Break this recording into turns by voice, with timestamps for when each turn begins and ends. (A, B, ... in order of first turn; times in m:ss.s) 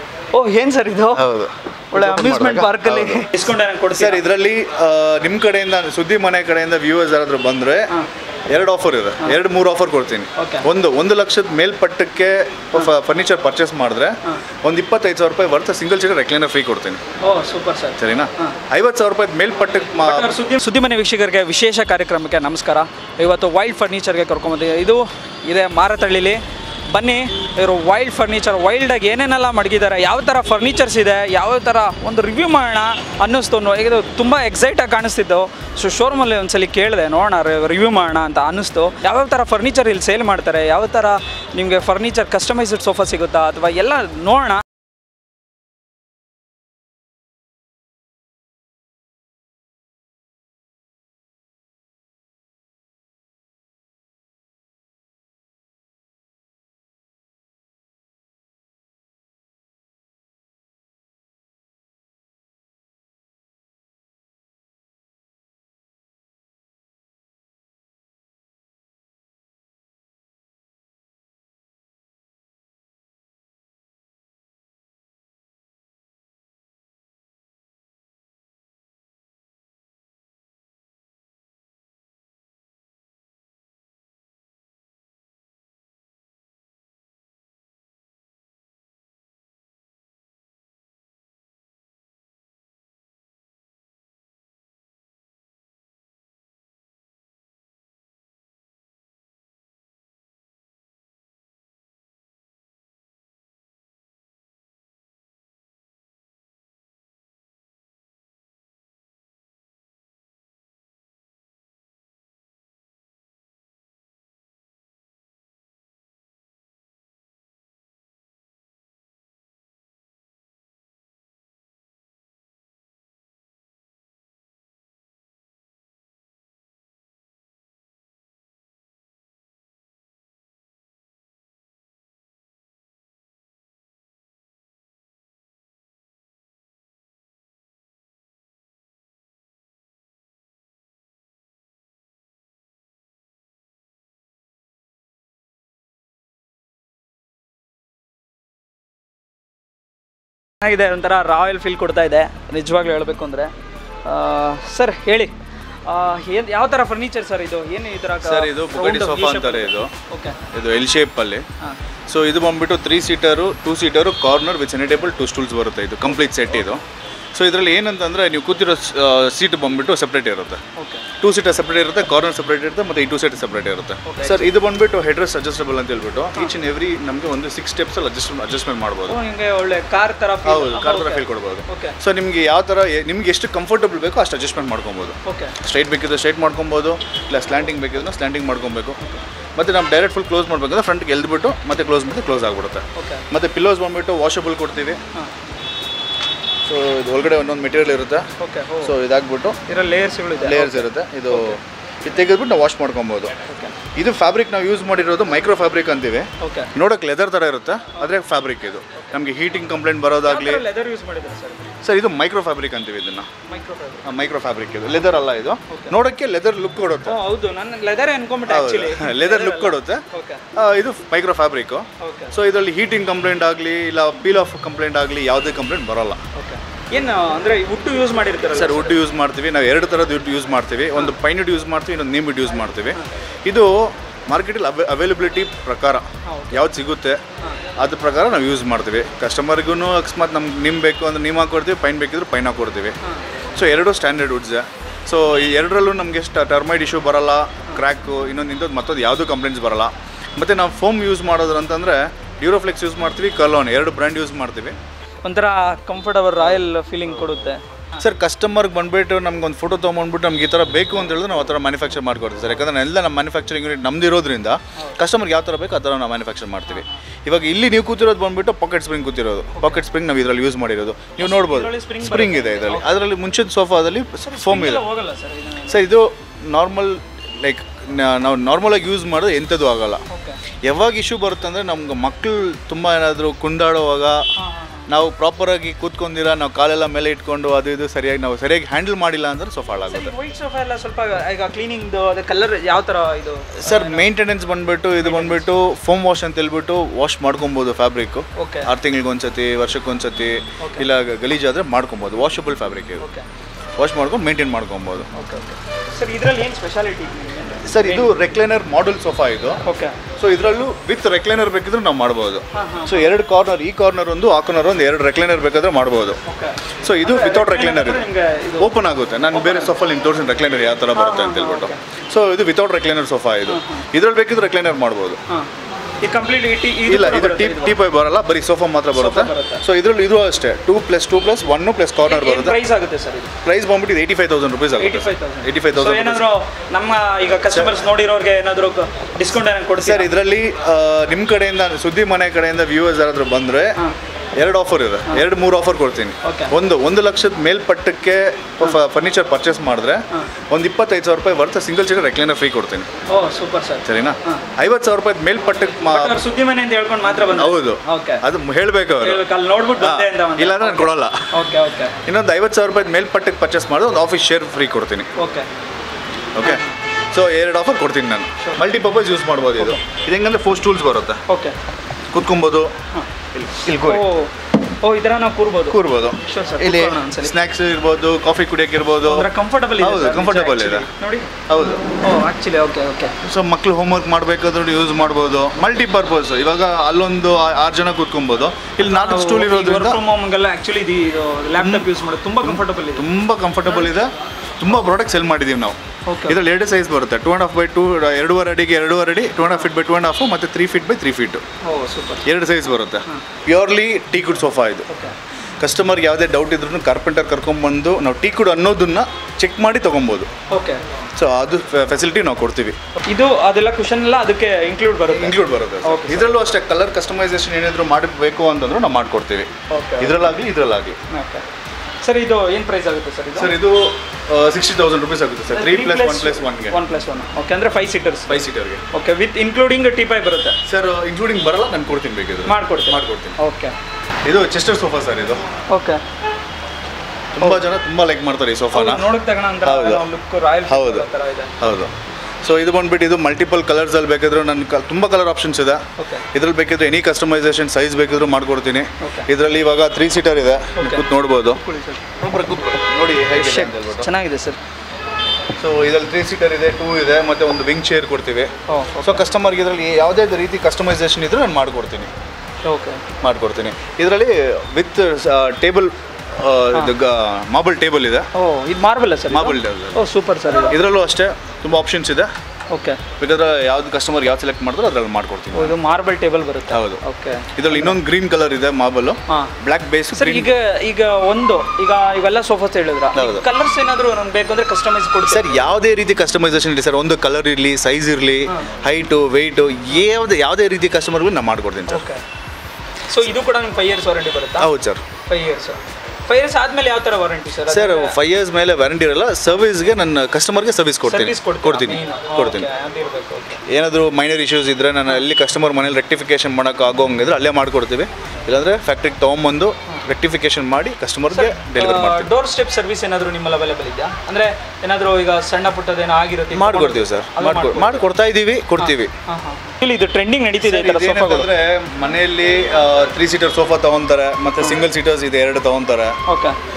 0:00.3-0:01.3 A
0:01.1-0:07.9 B
0:01.9-0:04.2 A
0:08.5-0:17.0 B
0:10.4-0:10.6 A
0:17.2-0:18.6 A
0:18.0-0:20.3 B
0:20.0-0:44.6 A
2:30.6-2:33.5 A
2:34.0-2:35.3 A
2:35.8-2:40.4 A
2:38.2-2:39.9 B
2:40.5-2:41.4 B
2:42.1-2:46.8 B
2:47.3-2:50.6 B
2:50.7-2:51.1 A
2:51.2-2:59.2 B
2:54.0-2:54.5 A
2:59.1-3:02.0 A
3:00.4-3:09.0 B
3:05.2-3:05.6 A
3:09.6-3:15.0 B
3:13.0-3:13.2 A
3:16.6-3:18.2 B
3:18.4-3:18.9 A
3:18.8-3:19.6 B
3:19.7-3:21.6 A
3:20.4-3:23.3 B
3:23.4-3:23.8 A
3:23.9-3:30.6 B
3:26.4-3:26.7 A
3:30.2-3:31.7 A
3:31.8-3:33.3 B
3:33.5-3:34.0 A
3:34.0-3:37.1 B
3:35.7-3:36.0 A
3:37.0-3:40.4 A
3:38.5-3:40.0 B
3:40.5-3:46.2 B
3:42.0-3:42.3 A
3:46.3-3:49.0 A
3:48.5-3:57.2 B
3:56.2-3:56.7 A
3:57.8-4:03.0 B
4:03.5-4:14.8 B
4:15.2-4:17.6 A
4:18.0-4:34.8 B
4:31.2-4:33.0 A
4:34.2-4:35.8 A
4:35.7-4:40.0 B
4:40.1-4:40.4 A
4:40.6-4:44.2 B
4:44.4-4:44.8 A
4:44.9-4:50.1 B
4:49.9-4:54.0 A
4:53.6-5:03.1 B
4:55.0-4:55.4 A
4:58.3-4:58.7 A
5:00.6-5:00.9 A
5:03.0-5:03.2 A
5:03.8-5:05.1 B
5:05.1-5:08.1 A
5:07.6-5:09.6 B
5:09.6-5:10.0 A
5:10.2-5:16.2 B
5:12.5-5:13.2 A
5:16.2-5:18.7 A
5:16.8-5:25.2 B
5:19.3-5:19.7 A
5:20.9-5:21.8 A
5:23.5-5:23.8 A
5:26.0-5:27.8 A
5:26.9-5:32.6 B
5:28.9-5:29.6 A
5:32.0-5:33.3 A
5:33.4-5:36.3 B
5:34.8-5:40.1 A
5:37.4-5:37.8 B
5:39.8-5:43.8 B
5:44.4-5:52.9 B
5:46.2-5:46.5 A
5:53.1-5:54.4 A
5:53.8-5:56.2 B
5:55.8-5:58.2 A
5:57.2-5:59.2 B
5:59.0-6:02.0 A
5:59.8-6:01.3 B
6:02.0-6:05.1 B
6:05.2-6:05.5 A
6:06.3-6:11.2 B
6:06.4-6:06.8 A
6:11.3-6:11.5 A
6:12.1-6:12.7 B
6:13.3-6:14.1 B
6:13.8-6:17.3 A
6:15.7-6:20.9 B
6:19.0-6:21.3 A
6:21.5-6:21.8 B
6:22.0-6:23.1 A
6:23.2-6:30.0 B
6:28.8-6:33.1 A
6:31.6-6:41.4 B
6:33.7-6:33.9 A
6:36.0-6:36.4 A
6:41.6-6:42.2 A
6:42.2-6:44.9 B
6:44.9-6:45.1 A
6:45.6-6:50.3 B
6:50.5-6:50.8 A
6:51.2-6:52.8 B
6:53.0-6:56.4 A
6:55.1-7:01.0 B
6:59.7-7:00.3 A
7:01.1-7:01.4 A
7:02.0-7:03.5 A
7:03.4-7:06.8 B
7:05.5-7:10.6 A
7:08.3-7:08.8 B
7:10.7-7:13.4 B
7:12.4-7:13.7 A
7:14.2-7:15.4 B
7:15.7-7:16.0 A
7:17.3-7:19.1 B
7:18.7-7:21.6 A
7:19.6-7:20.1 B
7:20.7-7:21.1 B
7:21.6-7:21.9 B
7:22.4-7:25.8 B
7:26.0-7:26.2 A
7:26.3-7:31.6 B
7:29.0-7:29.3 A
7:30.7-7:31.0 A
7:31.6-7:32.0 A
7:32.2-7:34.1 B
7:33.3-7:34.6 A
7:35.6-7:38.5 B
7:38.7-7:39.3 A
7:39.0-7:42.1 B
7:42.6-7:43.0 A
7:43.2-7:48.3 B
7:48.3-7:50.8 A
7:49.3-7:50.0 B
7:50.7-7:52.3 B
7:52.7-7:53.0 A
7:53.2-7:55.7 B
7:55.5-7:58.0 A
7:56.7-7:57.0 B
7:57.5-8:00.5 B
8:00.1-8:05.7 A
8:03.1-8:03.4 B
8:05.2-8:12.1 B
8:11.9-8:12.2 A
8:13.1-8:14.7 A
8:14.6-8:15.0 B
8:15.2-8:18.2 A
8:17.7-8:22.7 B
8:21.0-8:23.6 A
8:23.7-8:32.3 B
8:31.3-8:38.0 A
8:36.5-8:39.1 B
8:38.8-8:41.5 A
8:40.6-8:46.2 B
8:46.2-8:46.6 A